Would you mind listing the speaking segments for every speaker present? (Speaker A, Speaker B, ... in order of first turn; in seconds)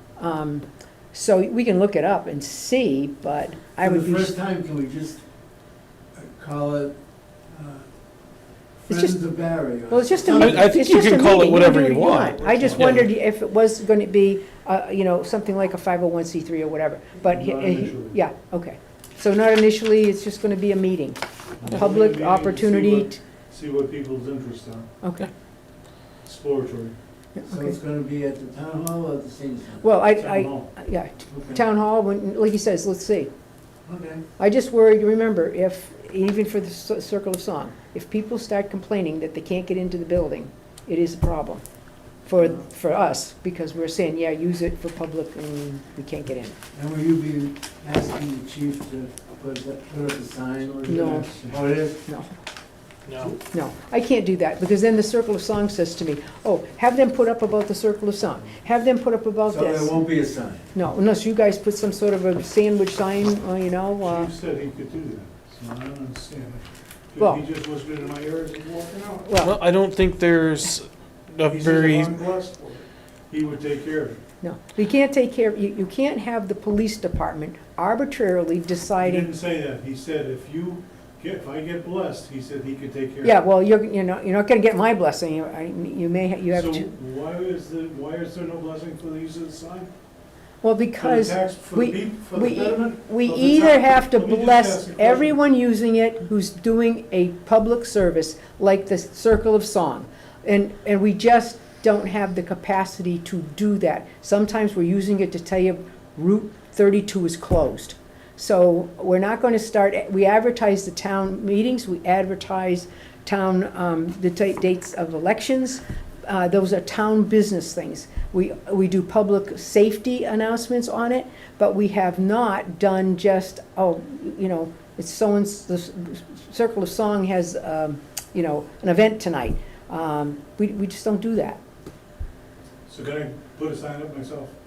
Speaker A: 0.2-4.4, 8.9-9.2, 9.9-23.2, 25.0-25.3, 27.4-27.7, 29.8-33.3, 34.4-41.6, 42.2-46.5, 50.9-51.3, 52.0-52.3, 53.4-59.9, 60.7-64.3, 69.2-69.6, 74.4-79.3, 83.2-86.8, 90.6-131.6
Speaker B: 3.8-5.2, 6.2-7.0, 7.5-7.8, 8.8-10.7, 27.4-29.9, 31.3-31.6, 33.9-34.2, 46.7-52.0, 59.5-60.7
Speaker C: 10.3-13.1, 53.1-53.3, 69.4-72.1
Speaker D: 17.3-18.2, 21.6-24.9, 26.2-26.9, 30.1-30.7, 50.6-51.6, 64.0-69.4, 71.4-74.2, 79.0-83.3, 86.5-89.9, 91.0-95.3, 132.9-134.5